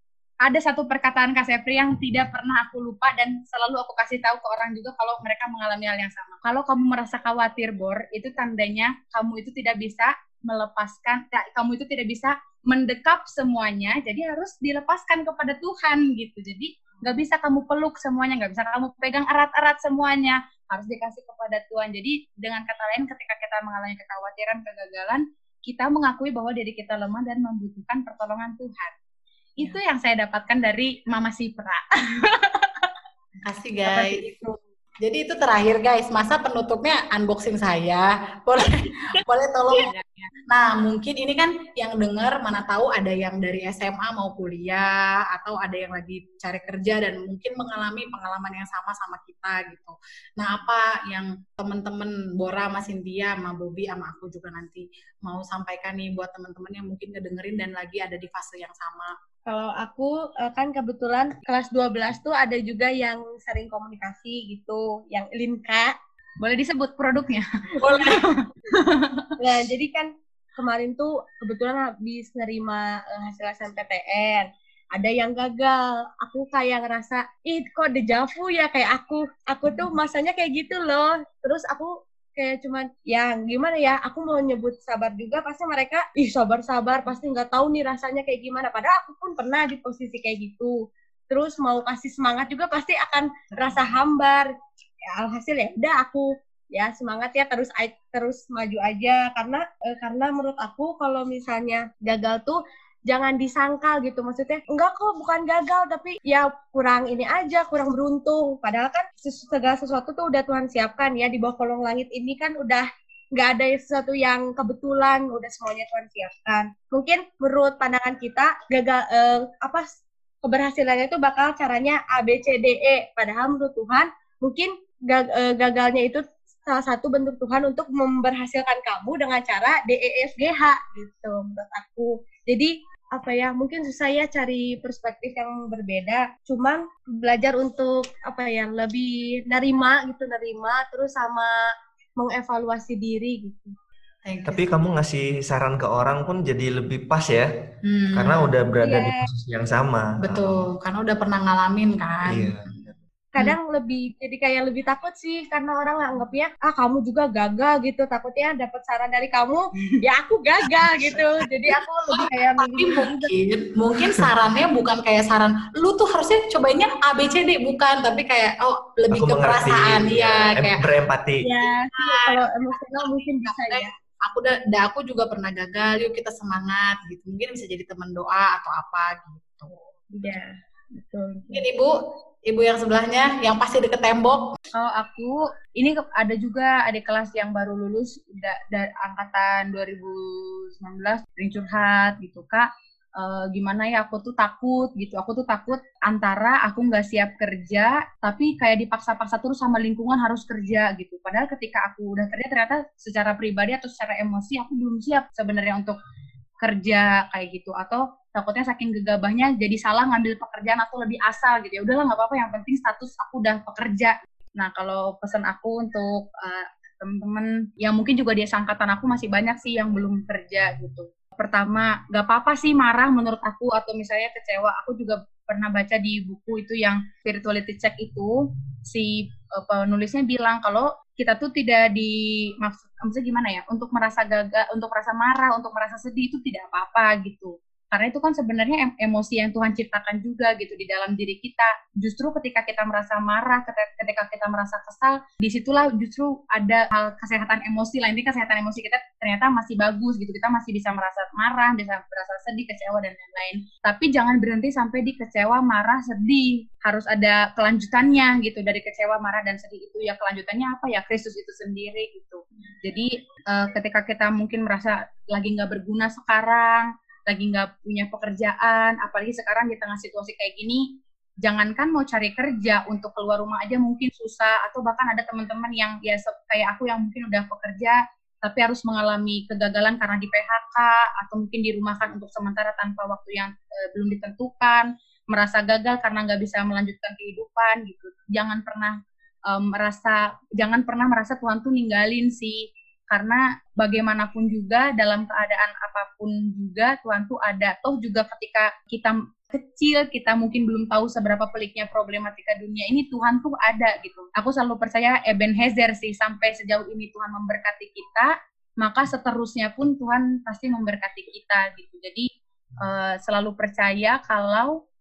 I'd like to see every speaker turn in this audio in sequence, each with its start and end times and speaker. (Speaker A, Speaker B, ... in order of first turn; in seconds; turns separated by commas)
Speaker A: 0.4-28.9, Speaker A: 29.6-32.9, Speaker B: 33.4-34.2, Speaker A: 33.9-34.6, Speaker B: 35.0-59.1, Speaker C: 59.5-66.0, Speaker A: 66.4-69.3, Speaker C: 67.9-68.2, Speaker C: 69.4-90.7, Speaker C: 91.3-94.5, Speaker B: 93.5-94.0, Speaker C: 95.1-119.9, Speaker C: 120.4-141.6, Speaker C: 142.2-143.8, Speaker B: 144.2-144.7, Speaker D: 144.5-147.5, Speaker B: 147.8-148.5, Speaker D: 148.1-150.7, Speaker C: 148.8-149.2, Speaker B: 150.2-152.7, Speaker D: 152.3-153.0, Speaker C: 153.3-163.3, Speaker B: 160.8-170.8, Speaker D: 169.1-171.5, Speaker C: 171.4-173.9, Speaker B: 171.9-179.8, Speaker C: 180.2-181.7, Speaker B: 181.5-181.9, Speaker B: 182.5-184.6, Speaker A: 184.7-206.0, Speaker A: 206.6-270.9, Speaker A: 271.4-289.0, Speaker A: 289.5-312.3, Speaker A: 312.8-314.8